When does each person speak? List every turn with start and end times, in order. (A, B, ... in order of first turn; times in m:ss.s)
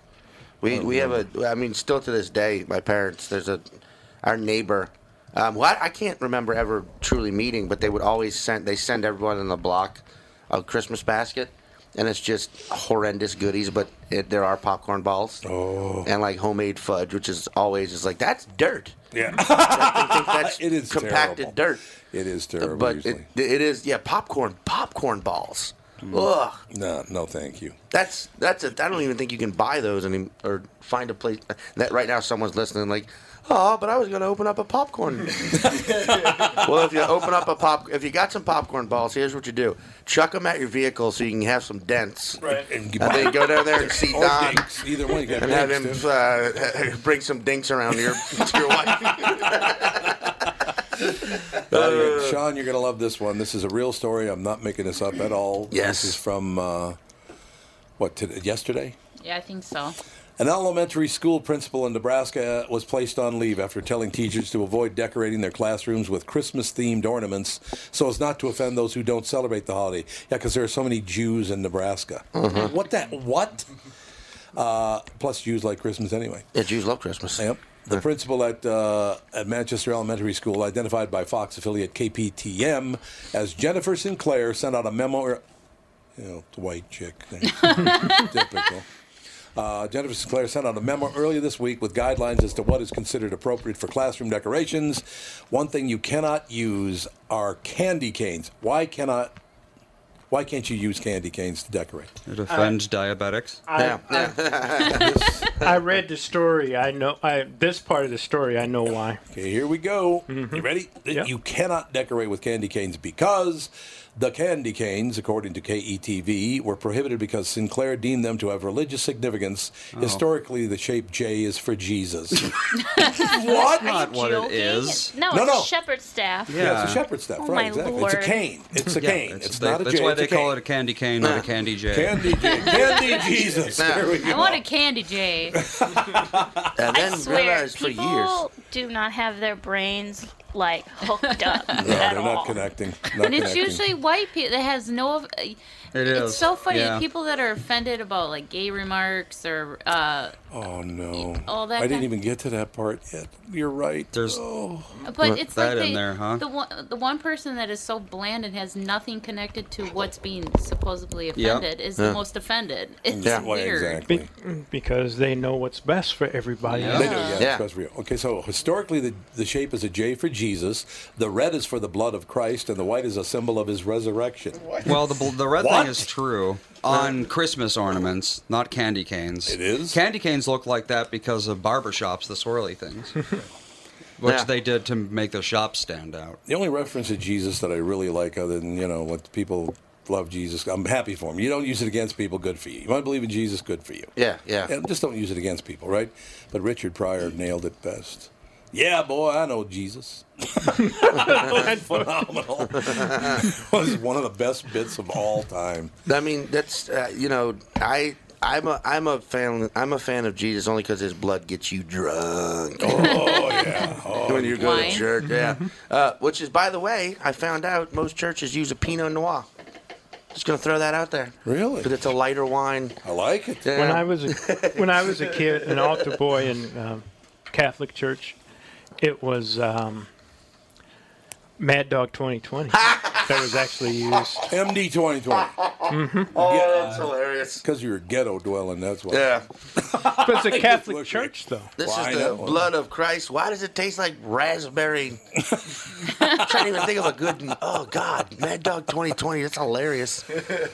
0:00.6-0:15.4 A
0:00.7-0:01.2 B
0:15.4-0:16.1 B
0:16.0-0:21.8 A
0:19.1-0:21.6 B
0:22.1-0:23.3 B
0:22.6-0:26.6 A
0:26.7-0:27.8 B
0:27.9-0:42.4 A
0:35.5-0:36.3 B
0:42.4-0:42.7 C
0:42.5-0:46.1 B
0:43.0-0:44.6 A
0:45.3-0:50.2 A
0:51.1-0:52.4 A
0:51.7-0:57.0 B
0:55.7-0:56.2 A
0:58.0-0:59.0 B
0:59.2-1:00.0 D
1:00.4-1:13.7 B
1:12.4-1:12.7 A
1:14.6-1:16.5 B
1:16.5-1:18.0 A
1:17.4-1:25.4 B
1:26.2-1:28.9 B
1:27.5-1:28.3 D
1:29.6-1:39.3 B
1:40.3-1:42.1 B
1:42.3-1:43.6 E
1:42.5-1:42.8 C
1:43.7-1:49.2 C
1:43.8-1:45.2 A
1:44.9-1:45.5 B
1:49.3-2:02.5 B
1:50.3-1:51.3 C
1:59.9-2:00.2 E
2:03.1-2:04.0 B
2:03.3-2:06.7 F
2:03.8-2:05.1 E
2:05.3-2:05.7 B
2:06.5-2:07.0 E
2:06.6-2:10.6 B
2:07.4-2:08.4 F
2:08.9-2:12.5 E
2:11.2-2:11.4 A
2:11.9-2:14.6 B
2:12.5-2:13.2 D
2:13.8-2:14.3 A
2:14.2-2:15.6 D
2:15.5-2:16.7 B
2:16.8-2:18.4 A
2:16.9-2:22.6 F
2:21.2-2:21.8 D
2:21.8-2:23.8 B
2:23.1-2:30.4 D
2:25.9-2:27.0 E
2:30.5-2:34.9 B
2:31.2-2:32.1 D
2:34.1-2:34.4 E
2:35.0-2:44.0 D
2:35.5-2:36.4 E
2:41.4-2:41.7 E
2:43.1-2:44.3 B
2:43.2-2:43.5 A
2:44.1-2:47.2 C
2:46.7-2:47.2 E
2:46.8-2:47.4 D
2:46.9-2:56.1 B
2:54.8-3:03.2 E
2:59.4-3:00.0 B
3:04.2-3:06.4 E
3:06.5-3:14.1 B
3:14.2-3:14.7 A
3:14.7-3:25.9 B
3:20.9-3:22.0 C
3:22.8-3:23.5 A
3:26.1-3:33.6 A
3:32.8-3:35.0 B
3:33.2-3:33.8 D
3:34.2-3:39.5 A
3:34.6-3:35.1 D
3:40.3-3:43.0 A
3:41.4-3:41.9 B
3:43.0-3:43.8 B
3:43.6-3:45.4 A
3:43.8-3:48.4 C
3:49.0-3:50.1 C
3:51.6-3:54.4 C
3:52.8-3:53.4 A
3:54.5-3:55.5 B
3:55.6-3:57.6 A
3:55.9-3:56.3 C
3:56.3-4:02.7 B
3:59.1-3:59.4 A
4:00.2-4:01.7 C
4:01.8-4:05.2 A
4:05.5-4:05.7 B
4:06.2-4:10.3 A